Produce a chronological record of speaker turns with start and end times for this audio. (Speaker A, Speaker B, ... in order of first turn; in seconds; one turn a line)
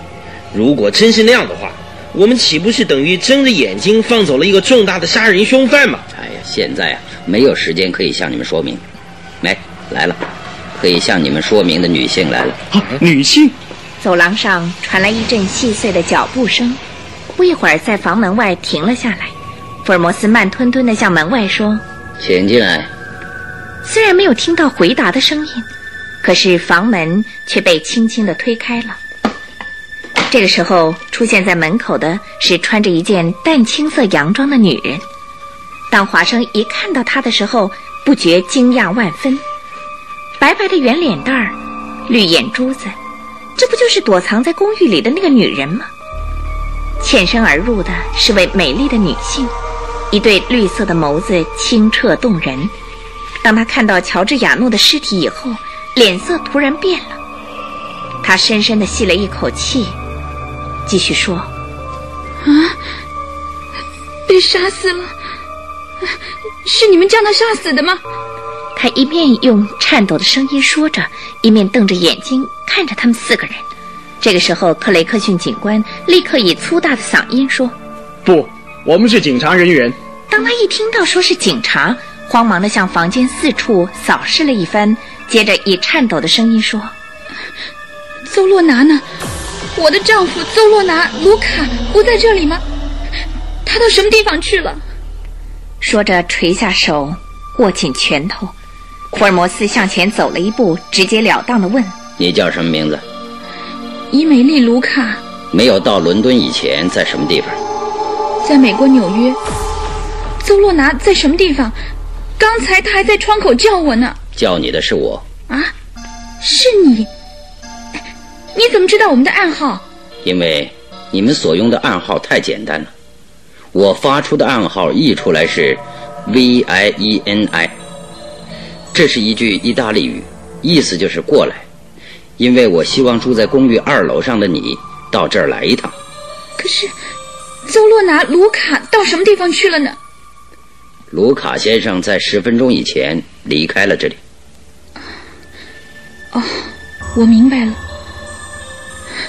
Speaker A: 0.5-6.0
Speaker B: 6.1-8.8
Speaker B: 9.4-10.2
Speaker B: 10.8-12.6
Speaker C: 12.7-13.6
Speaker D: 14.0-21.8
Speaker B: 22.2-22.9
Speaker D: 23.8-25.7
Speaker D: 26.2-29.0
Speaker D: 30.3-35.0
Speaker D: 35.9-39.4
Speaker D: 40.4-41.6
Speaker D: 42.1-42.9
Speaker D: 43.6-45.9
Speaker D: 47.0-49.5
Speaker D: 50.1-52.7
Speaker D: 53.4-57.2
Speaker D: 58.2-60.0
Speaker D: 60.9-61.5
Speaker E: 62.4-62.8
Speaker E: 64.3-65.1
Speaker E: 66.6-68.0
Speaker D: 68.8-73.7
Speaker D: 74.2-77.8
Speaker C: 78.2-80.0
Speaker D: 80.3-86.9
Speaker E: 88.3-89.1
Speaker E: 89.8-92.6
Speaker E: 93.7-94.8
Speaker D: 95.8-98.5
Speaker D: 99.1-101.9
Speaker B: 102.2-103.0
Speaker E: 104.1-105.2
Speaker B: 105.5-107.6
Speaker E: 108.4-109.4
Speaker E: 110.4-111.8
Speaker E: 112.4-114.2
Speaker B: 114.3-115.2
Speaker E: 116.4-117.1
Speaker E: 118.5-119.8
Speaker B: 120.2-122.9
Speaker B: 123.7-127.8
Speaker B: 128.9-131.7
Speaker B: 132.4-135.9
Speaker E: 136.6-136.9
Speaker E: 137.7-140.0
Speaker B: 141.1-144.2
Speaker E: 146.3-147.8